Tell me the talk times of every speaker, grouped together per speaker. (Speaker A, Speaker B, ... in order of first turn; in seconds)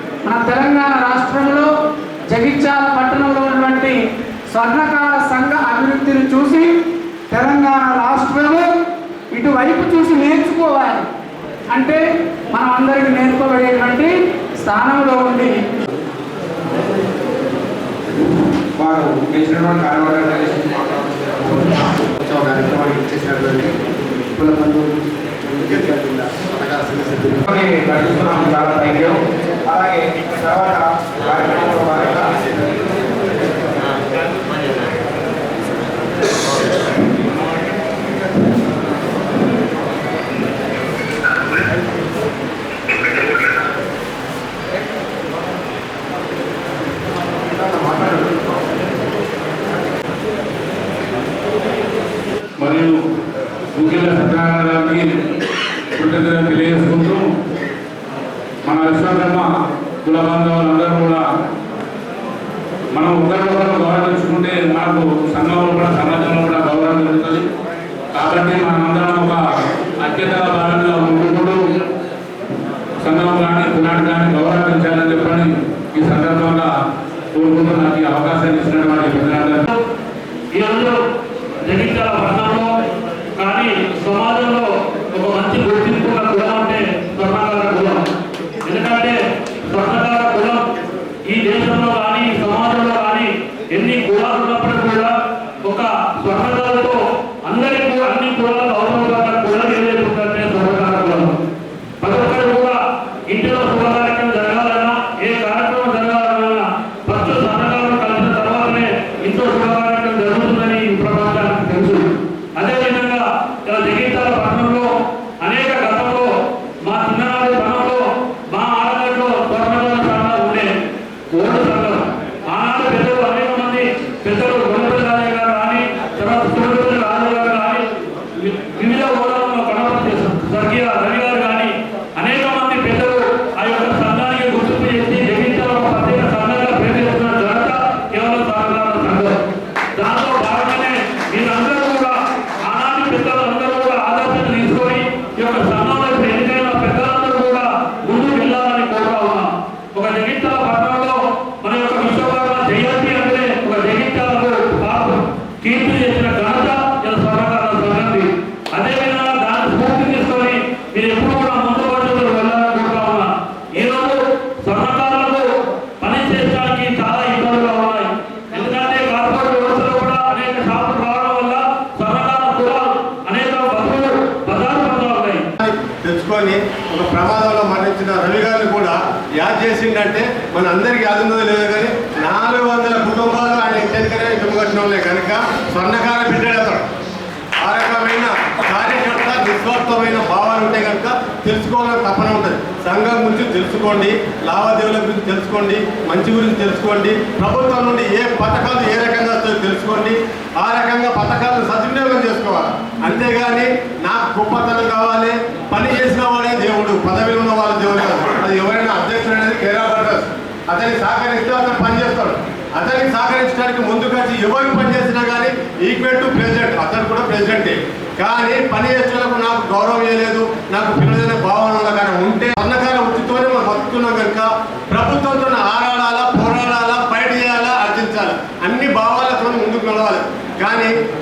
Speaker A: 0.2-1.7, 2.3-4.0, 4.5-6.7, 7.3-8.7, 9.3-11.1, 11.7-12.0, 12.5-15.5
Speaker B: 18.8-23.4, 24.4-24.8, 27.3-32.5
Speaker C: 22.3-23.7, 24.4-24.8, 25.6-27.3, 175.6-186.8, 187.6-230.9
Speaker D: 52.6-53.0, 53.7-55.1, 55.9-57.2, 58.6-59.5, 60.0-61.2, 62.9-67.4, 68.1-71.6, 73.0-76.7, 77.3-79.7
Speaker E: 80.5-80.9, 81.7-82.7, 83.4-88.0, 88.6-90.7, 91.3-95.1, 95.6-101.3, 102.0-102.8, 103.3-114.9, 115.4-116.3, 116.8-120.7, 121.3-127.9, 128.4-139.4, 140.0-142.1, 142.6-165.4, 166.0-175.4